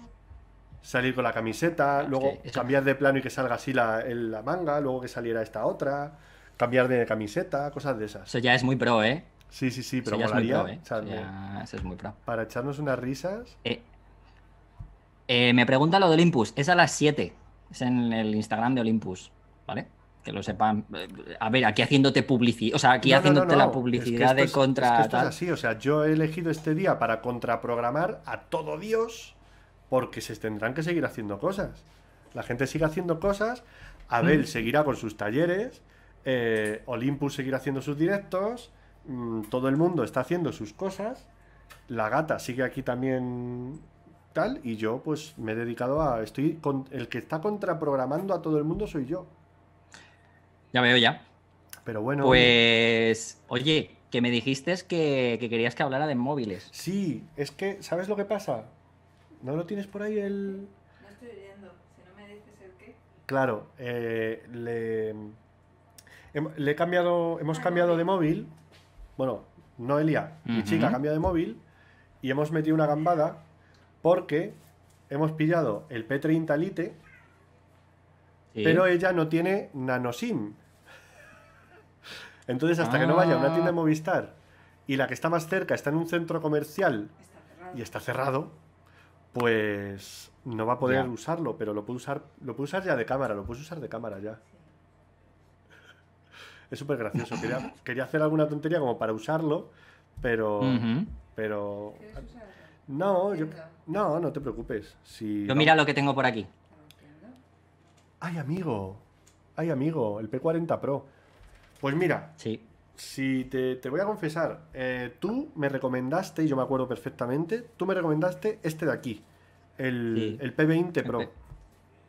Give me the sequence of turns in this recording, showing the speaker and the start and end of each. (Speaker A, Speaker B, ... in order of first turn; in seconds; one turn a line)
Speaker A: 0.8-8.3
Speaker B: 2.0-2.7
Speaker B: 8.3-9.3
Speaker A: 9.5-11.3
Speaker B: 10.0-12.2
Speaker A: 12.3-13.6
Speaker B: 15.3-25.3
Speaker A: 23.0-29.4
Speaker A: 29.9-41.3
Speaker A: 41.9-49.3
Speaker B: 50.7-51.2
Speaker A: 51.9-52.6
Speaker B: 52.2-56.7
Speaker A: 56.7-58.7
Speaker A: 59.4-60.7
Speaker C: 61.0-63.0
Speaker A: 63.3-65.4
Speaker A: 66.3-68.5
Speaker C: 67.5-68.0
Speaker A: 69.2-71.6
Speaker B: 70.5-71.0
Speaker A: 72.2-73.5
Speaker A: 74.0-77.0
Speaker B: 78.5-78.8
Speaker A: 78.6-80.6
Speaker A: 82.5-87.1
Speaker B: 82.8-83.8
Speaker C: 87.2-87.8
Speaker A: 87.7-88.6
Speaker A: 89.3-94.4
Speaker B: 90.8-91.1
Speaker A: 96.7-102.2
Speaker B: 100.6-101.1
Speaker C: 102.0-102.8
Speaker A: 102.9-105.8
Speaker C: 103.3-103.8
Speaker B: 105.5-106.5
Speaker C: 106.7-107.4
Speaker A: 108.2-109.0
Speaker A: 109.6-111.1
Speaker A: 111.8-112.3
Speaker B: 112.4-112.7
Speaker A: 112.9-119.2
Speaker A: 119.8-121.3
Speaker B: 120.1-120.4